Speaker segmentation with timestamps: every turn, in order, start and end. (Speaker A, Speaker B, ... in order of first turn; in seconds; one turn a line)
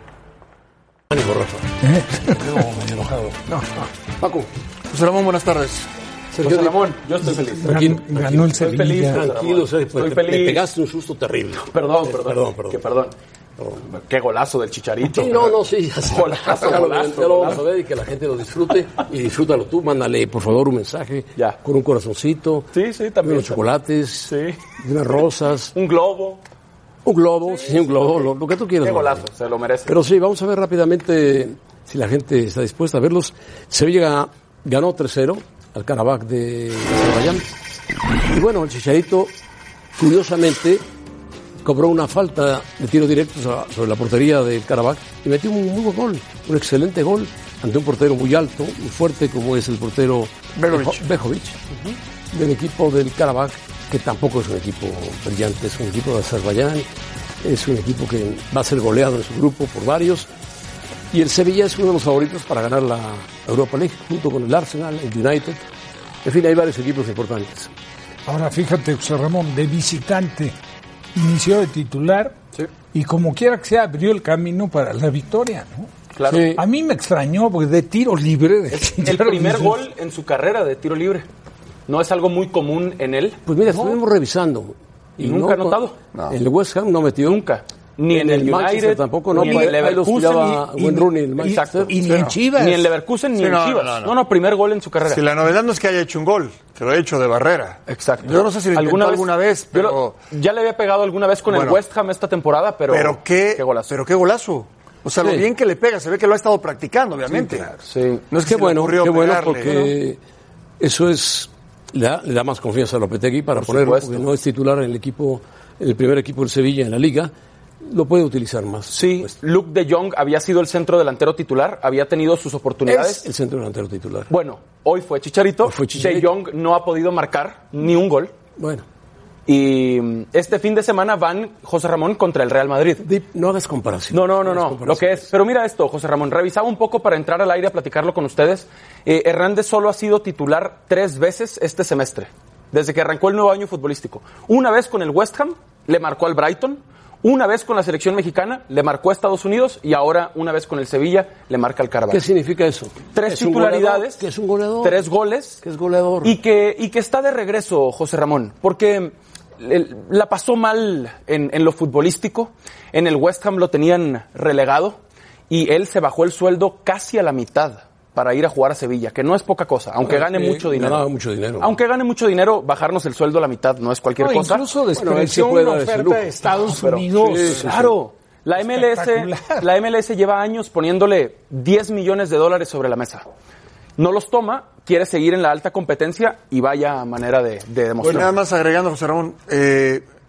Speaker A: 1.1-1.7
Speaker B: 1.8-3.9
Speaker A: 2.3-3.4
Speaker A: 4.2-4.5
Speaker C: 4.9-5.9
Speaker A: 6.3-6.8
Speaker D: 6.4-10.7
Speaker B: 7.3-9.2
Speaker A: 7.7-12.8
Speaker D: 11.7-13.1
Speaker D: 13.8-17.6
Speaker A: 15.0-22.7
Speaker D: 22.7-23.7
Speaker A: 23.2-25.7
Speaker D: 24.3-24.6
Speaker D: 25.7-26.4
Speaker A: 27.0-29.3
Speaker D: 27.7-28.1
Speaker D: 28.8-29.9
Speaker A: 29.9-37.6
Speaker A: 38.3-39.4
Speaker A: 40.0-40.8
Speaker A: 41.6-51.6
Speaker C: 50.6-51.0
Speaker A: 52.3-56.9
Speaker A: 57.4-60.3
Speaker A: 61.1-65.6
Speaker A: 66.2-67.7
Speaker B: 68.3-70.5
Speaker B: 71.2-72.4
Speaker B: 72.9-75.9
Speaker D: 76.2-76.5
Speaker A: 76.3-76.6
Speaker B: 76.5-79.8
Speaker D: 78.7-81.3
Speaker D: 81.9-83.4
Speaker A: 83.5-87.4
Speaker D: 85.2-86.0
Speaker D: 87.3-90.7
Speaker A: 88.1-92.4
Speaker B: 89.3-89.9
Speaker B: 90.7-92.9
Speaker D: 91.4-95.2
Speaker C: 93.3-94.2
Speaker C: 95.1-100.2
Speaker D: 97.9-103.9
Speaker C: 101.5-101.8
Speaker C: 102.9-107.7
Speaker A: 105.2-105.5
Speaker B: 107.4-107.7
Speaker D: 107.9-108.2
Speaker C: 108.3-109.7
Speaker A: 108.4-110.2
Speaker A: 110.8-119.3
Speaker D: 113.6-114.2
Speaker D: 118.9-123.3
Speaker A: 122.9-124.3
Speaker D: 124.3-128.3
Speaker A: 125.6-126.3
Speaker A: 128.6-128.9
Speaker D: 129.5-133.1
Speaker A: 133.0-135.3
Speaker D: 134.1-152.2
Speaker A: 152.1-155.1
Speaker D: 153.1-154.2
Speaker D: 154.8-155.6
Speaker A: 155.6-156.4
Speaker D: 156.2-165.0
Speaker D: 165.5-171.1
Speaker A: 170.0-171.8
Speaker D: 171.6-174.6
Speaker B: 174.2-177.7
Speaker A: 174.9-176.5
Speaker D: 176.8-183.3
Speaker A: 177.1-178.0
Speaker B: 178.6-179.7
Speaker D: 184.0-188.3
Speaker A: 188.0-188.3
Speaker C: 188.0-190.1